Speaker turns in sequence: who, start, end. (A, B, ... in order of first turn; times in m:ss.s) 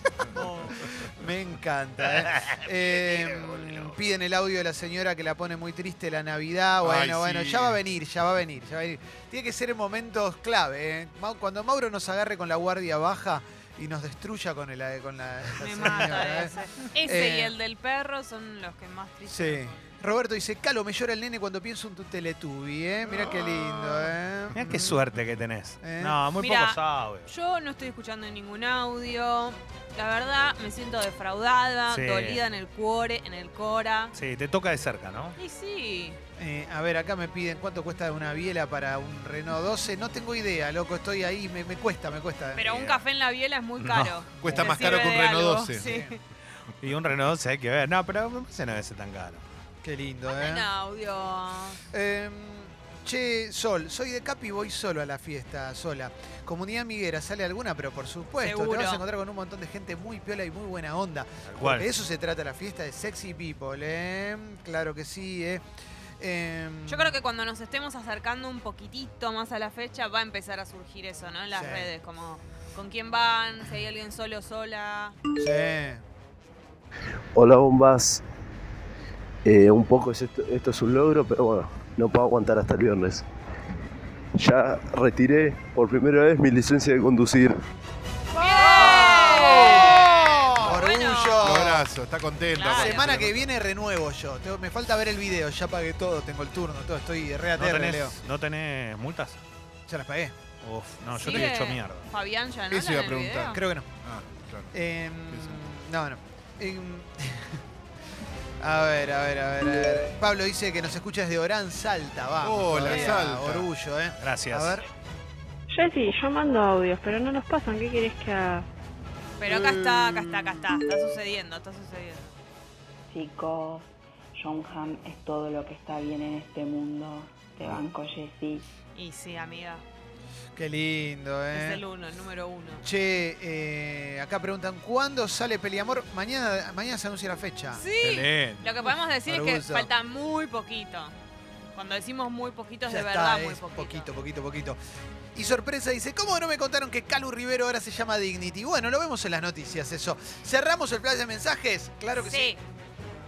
0:00.2-0:01.1 A
0:00.3-0:17.5 B
0:00.3-0:00.7 C
0:02.0-0:04.0 D
0:06.8-0:07.8 A
0:15.6-0:20.0 C
0:19.3-0:25.0 B
0:23.2-0:24.1 C
0:24.5-0:27.3 D
0:25.8-0:26.2 B
0:26.3-0:34.1 C
0:31.9-0:32.4 D
0:34.1-0:35.4 D
0:35.4-0:36.2 C
0:36.4-0:43.0 B
0:42.5-0:46.2 C
0:43.8-0:44.2 D
0:44.4-0:45.9 A
0:44.4-0:45.1 B
0:45.7-0:46.1 B
0:46.8-0:49.4 D
0:49.8-0:50.7 B
0:50.3-0:51.8 C
0:51.9-1:05.6 B
0:58.4-0:59.0 C
1:01.4-1:01.9 D
1:06.2-1:07.1 B
1:06.9-1:15.2 C
1:11.5-1:11.9 B
1:15.4-1:16.0 B
1:17.3-1:18.2 E
1:19.4-1:23.2 E
1:24.4-1:27.6 E
1:28.3-1:31.8 B
1:28.4-1:31.6 C
1:31.4-1:33.5 A
1:32.5-1:33.0 C
1:32.7-1:38.2 B
1:37.6-1:39.4 D
1:39.9-1:40.4 B
1:40.6-1:42.1 D
1:41.2-1:43.6 C
1:42.7-1:44.8 A
1:43.5-1:43.9 B
1:44.7-1:47.6 B
1:45.3-1:45.7 A
1:48.6-1:54.8 B
1:52.4-1:53.7 A
1:52.9-1:53.1 C
1:54.2-1:54.8 D
1:55.7-1:58.6 F
1:59.4-2:02.3 C
1:59.4-2:00.6 A
2:03.1-2:08.6 G
2:08.9-2:09.8 C
2:10.6-2:11.8 B
2:11.5-2:12.8 C
2:12.8-2:17.8 B
2:17.7-2:21.1 C
2:18.0-2:18.6 D
2:18.8-2:19.9 B
2:21.7-2:24.1 C
2:22.9-2:24.8 B
2:25.3-2:32.5 B
2:32.2-2:32.6 C